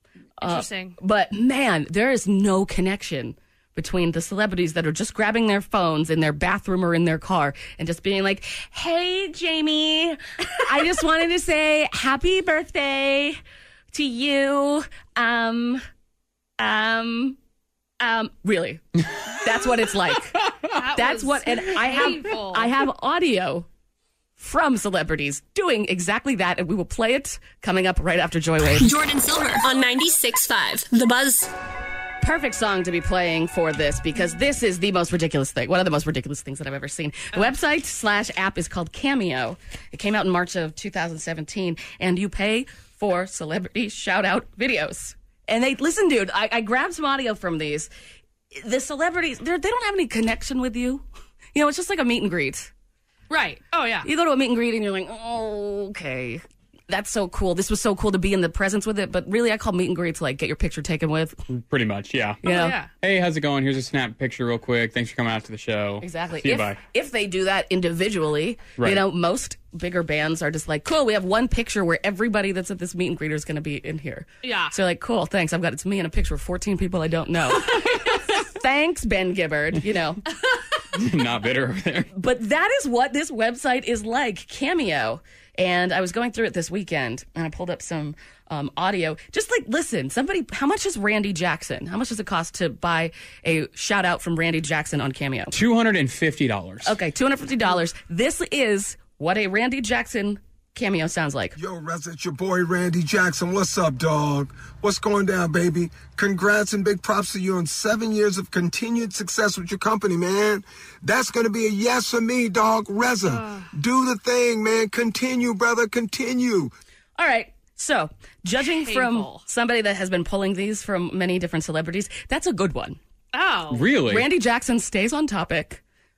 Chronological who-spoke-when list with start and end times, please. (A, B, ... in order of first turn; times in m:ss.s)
0:00.4-0:13.4 A
0:00.4-0:01.0 B
0:13.9-0:15.8 A
0:16.6-0:17.4 A
0:18.0-0:20.4 A
0:20.7-0:22.7 B
0:20.9-0:23.7 A
0:24.4-0:28.9 A
0:28.6-0:31.5 C
0:32.2-0:47.9 A
0:48.5-0:52.7 A
0:53.3-0:54.1 B
0:54.0-1:01.4 A
1:01.5-1:02.4 D
1:02.4-1:02.8 A
1:02.4-1:02.9 B
1:03.0-1:06.8 D
1:06.0-1:20.2 A
1:08.8-1:09.0 D
1:14.4-1:14.7 B
1:17.8-1:18.1 B
1:20.9-1:22.1 D
1:22.1-1:35.5 A
1:35.5-1:37.0 D
1:36.8-1:41.6 A
1:41.6-1:56.7 E
1:53.2-1:53.7 B
1:57.2-2:03.0 A
1:58.6-1:59.4 B
2:03.3-2:03.9 B
2:03.7-2:04.3 D
2:04.1-2:05.8 A